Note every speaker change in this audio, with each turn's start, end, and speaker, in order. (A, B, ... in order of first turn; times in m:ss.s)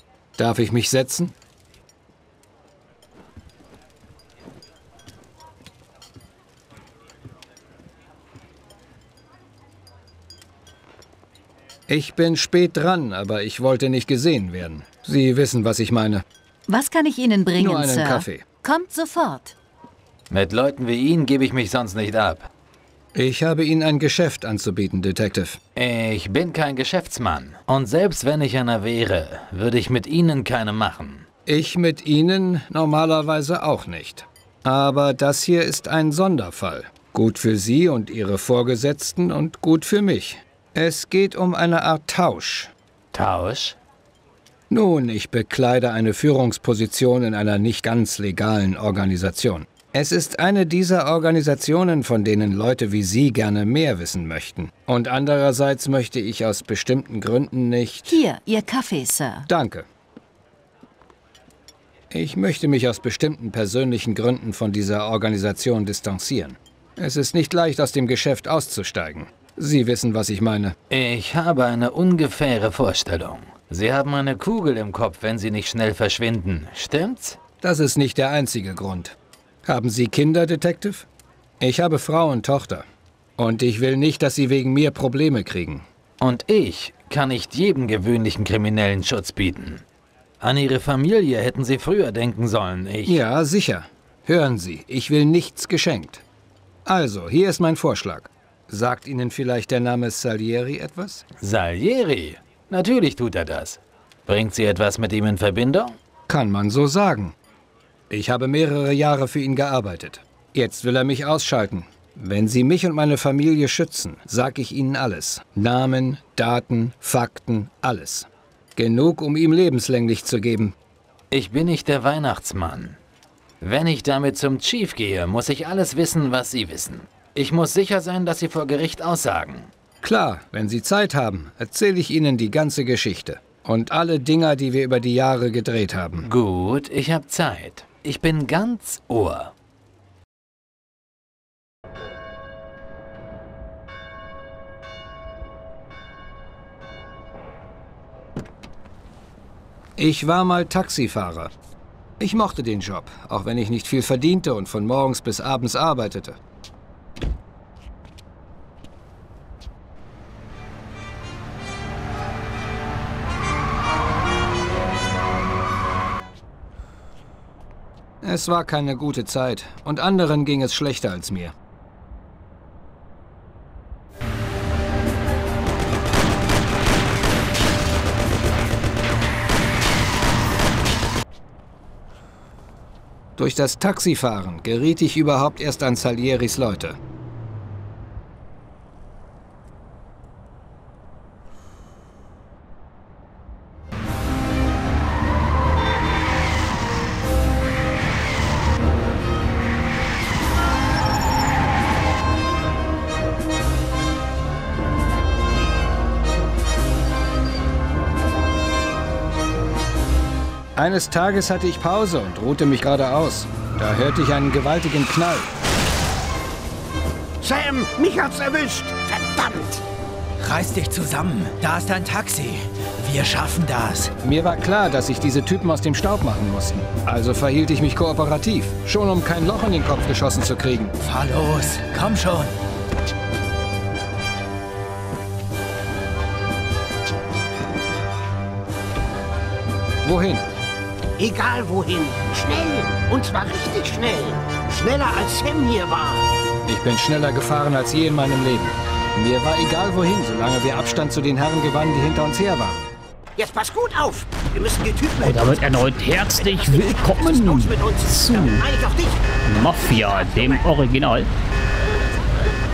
0:00.4-0:01.3 A
0:11.9-0:16.2 A
0:16.7-0:19.5 B
0:17.6-0:18.4 A
0:20.3-0:22.5 C
0:23.1-0:25.6 A
0:25.7-0:31.3 C
0:31.4-0:42.7 A
0:43.1-0:43.8 C
0:44.7-0:58.2 A
0:58.1-0:59.5 B
0:59.4-0:59.9 A
1:02.1-1:10.7 A
1:10.9-1:17.4 C
1:17.6-1:21.1 A
1:21.6-1:22.8 A
1:23.4-1:25.9 A
1:26.2-1:29.8 C
1:30.4-1:33.2 C
1:33.0-1:36.2 A
1:36.8-1:41.2 A
1:41.4-1:45.9 C
1:46.3-1:47.3 A
1:48.1-2:00.7 A
2:01.3-2:03.0 C
2:03.6-2:09.7 C
2:10.0-2:16.3 A
2:16.2-2:19.5 C
2:30.0-2:31.5 A
2:32.2-2:36.4 A
2:48.2-2:51.5 A
3:03.4-3:07.0 A
3:30.7-3:35.5 A
3:37.4-3:39.8 D
3:40.4-3:44.1 E
3:44.2-3:50.9 A
3:51.0-3:52.5 E
4:00.0-4:00.5 A
4:01.2-4:06.2 D
4:06.6-4:12.9 A
4:13.4-4:19.2 D
4:15.2-4:18.6 F
4:19.4-4:21.3 F
4:19.8-4:20.6 D